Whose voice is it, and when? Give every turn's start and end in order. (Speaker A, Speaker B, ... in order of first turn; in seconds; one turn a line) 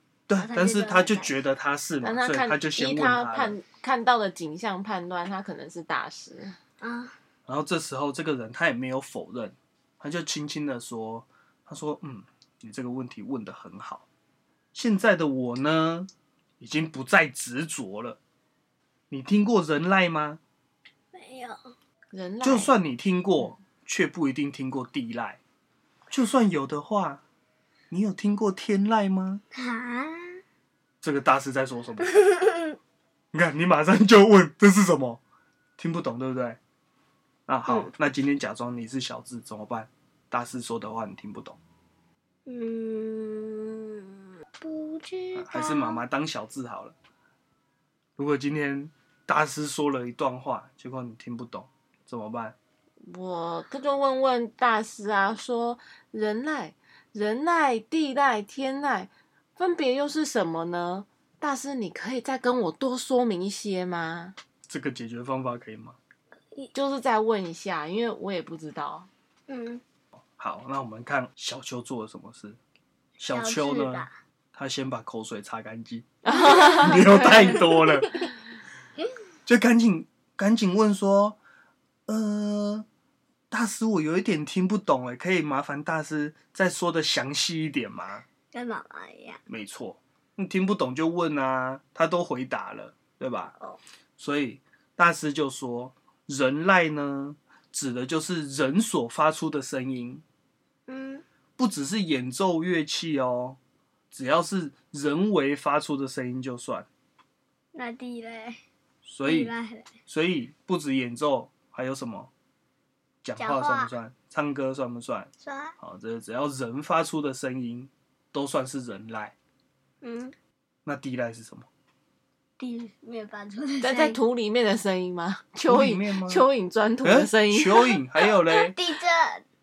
Speaker A: 0.3-3.6
Speaker B: 0.3-1.4
Speaker C: 2.0-6.5
Speaker B: 6.8-7.1
Speaker A: 7.5-14.1
Speaker A: 14.7-16.1
Speaker A: 16.6-18.2
Speaker A: 19.1-20.4
Speaker B: 21.1-21.6
Speaker C: 22.1-22.7
Speaker A: 22.4-25.4
Speaker A: 26.1-27.2
Speaker A: 27.9-29.4
Speaker B: 29.6-30.4
Speaker A: 31.0-32.1
Speaker B: 32.1-32.7
Speaker A: 33.3-35.2
Speaker A: 35.8-36.6
Speaker A: 37.5-41.6
Speaker B: 42.5-46.0
Speaker A: 45.4-46.9
Speaker A: 48.2-52.5
Speaker C: 53.1-64.3
Speaker A: 64.7-66.0
Speaker C: 66.7-69.1
Speaker B: 69.5-69.8
Speaker A: 70.4-72.6
Speaker B: 73.2-74.1
Speaker A: 73.2-78.1
Speaker C: 76.2-77.8
Speaker B: 76.3-76.9
Speaker B: 77.6-78.2
Speaker A: 79.5-81.4
Speaker A: 82.1-82.8
Speaker A: 83.5-88.2
Speaker B: 88.5-89.4
Speaker A: 89.5-93.5
Speaker A: 94.2-100.2
Speaker B: 100.9-101.2
Speaker A: 101.6-103.6
Speaker A: 104.1-106.9
Speaker B: 107.7-108.6
Speaker A: 109.0-109.5
Speaker B: 109.2-109.9
Speaker A: 110.0-112.3
Speaker A: 113.2-119.3
Speaker B: 113.4-113.9
Speaker B: 115.4-115.7
Speaker B: 120.0-120.3
Speaker A: 120.8-121.7
Speaker B: 122.6-124.2
Speaker C: 123.8-128.0
Speaker A: 125.6-126.5
Speaker A: 127.0-128.8
Speaker B: 128.5-129.4